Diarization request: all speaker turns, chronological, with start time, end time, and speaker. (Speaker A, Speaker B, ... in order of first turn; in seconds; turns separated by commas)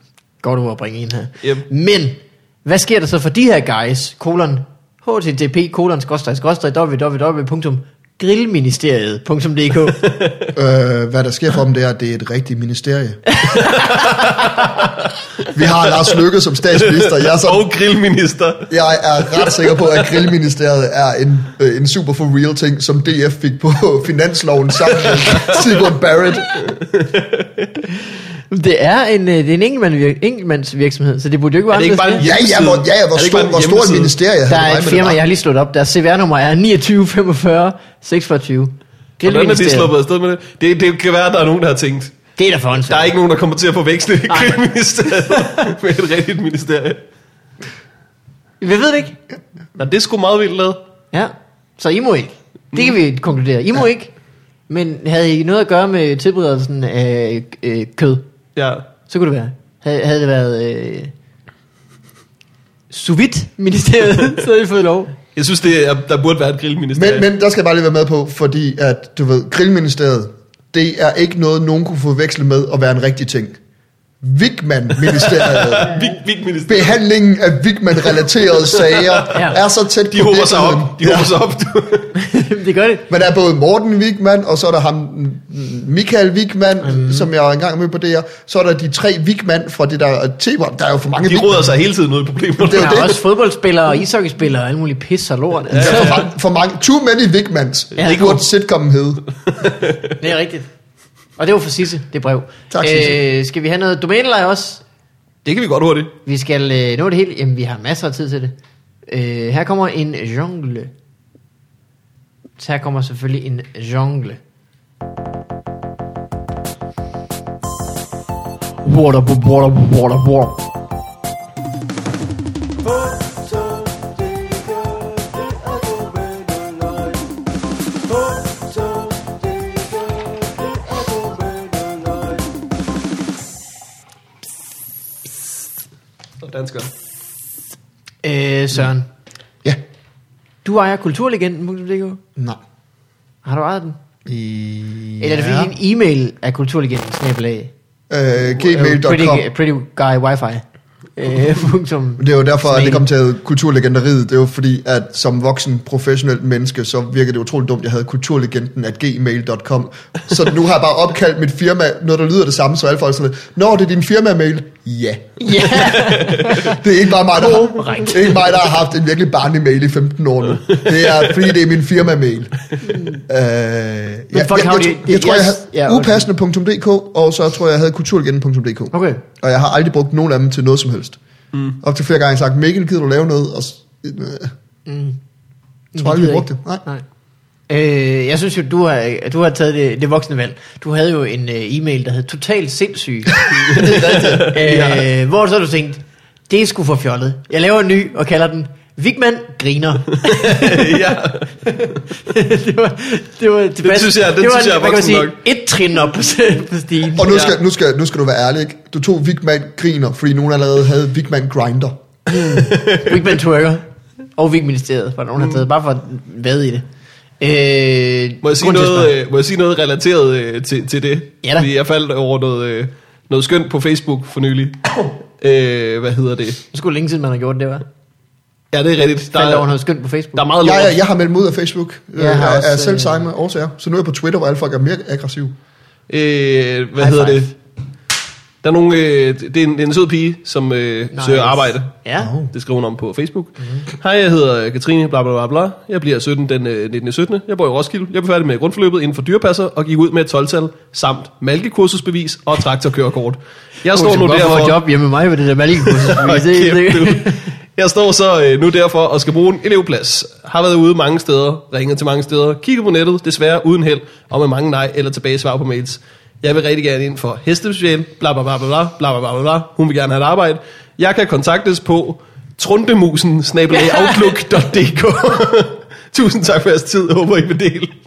Speaker A: 0.4-10.1, Speaker B: 10.0-10.5, Speaker C: 10.5-13.2, Speaker A: 13.4-13.8, Speaker B: 13.6-14.7, Speaker C: 15.5-17.6, Speaker B: 16.7-18.7, Speaker C: 18.7-26.5, Speaker B: 19.3-19.8, Speaker B: 25.0-25.7, Speaker B: 26.5-27.8, Speaker A: 28.5-32.3, Speaker B: 31.7-34.1, Speaker C: 32.2-35.2, Speaker A: 34.5-39.9, Speaker B: 39.2-42.2, Speaker A: 42.4-43.1, Speaker B: 42.9-47.0, Speaker A: 44.3-44.7, Speaker A: 45.2-45.7, Speaker A: 48.6-49.2, Speaker B: 49.8-50.8, Speaker A: 51.1-54.1, Speaker A: 54.7-58.2, Speaker B: 58.6-58.9, Speaker A: 59.1-61.1, Speaker A: 62.9-65.2, Speaker B: 65.3-67.3, Speaker C: 67.0-73.6, Speaker C: 74.2-75.9, Speaker B: 75.1-77.0, Speaker C: 76.7-81.3, Speaker B: 78.8-79.3, Speaker A: 79.3-79.6, Speaker B: 80.1-82.1, Speaker A: 82.2-83.1, Speaker C: 83.1-91.7, Speaker A: 86.8-87.3, Speaker B: 91.2-93.2, Speaker C: 92.6-93.2, Speaker A: 92.7-96.3, Speaker B: 95.7-96.3, Speaker C: 95.8-99.2, Speaker A: 98.0-98.4, Speaker B: 99.5-100.1, Speaker A: 100.2-100.7, Speaker A: 101.4-104.8, Speaker C: 102.7-103.2, Speaker B: 105.5-106.1, Speaker A: 106.2-108.5, Speaker A: 109.1-110.9, Speaker A: 112.6-114.4, Speaker A: 118.8-120.6, Speaker B: 136.4-136.9, Speaker A: 138.2-139.1, Speaker A: 140.6-142.2, Speaker A: 143.4-144.0, Speaker C: 144.3-145.7, Speaker A: 145.2-147.7, Speaker C: 148.1-149.5, Speaker A: 148.4-150.6, Speaker A: 151.2-153.1, Speaker C: 152.2-172.6, Speaker A: 165.4-168.7, Speaker B: 165.8-166.6, Speaker B: 170.6-171.4, Speaker A: 172.8-173.2, Speaker C: 173.2-181.2, Speaker A: 174.3-176.3, Speaker A: 178.9-179.2, Speaker C: 181.8-184.5, Speaker A: 184.9-185.2, Speaker A: 185.9-187.0, Speaker C: 186.0-186.8, Speaker A: 187.7-201.0, Speaker C: 193.4-194.5, Speaker B: 193.7-195.1, Speaker B: 200.2-201.5, Speaker A: 201.7-207.3, Speaker B: 203.8-205.4, Speaker C: 207.2-212.0, Speaker B: 207.3-207.6, Speaker A: 212.3-213.8, Speaker B: 212.6-213.3, Speaker A: 214.4-216.9, Speaker A: 217.4-219.1, Speaker B: 218.4-226.6, Speaker A: 221.4-221.7, Speaker A: 226.7-227.8, Speaker B: 228.7-229.7, Speaker A: 229.3-230.4, Speaker B: 230.4-230.9, Speaker C: 230.6-235.5, Speaker A: 232.2-233.3, Speaker B: 236.1-237.5, Speaker A: 237.0-237.5, Speaker B: 238.6-241.9, Speaker A: 241.1-242.3, Speaker C: 242.2-242.5, Speaker B: 242.5-254.8, Speaker A: 253.9-257.5, Speaker B: 255.8-277.9, Speaker A: 273.7-274.4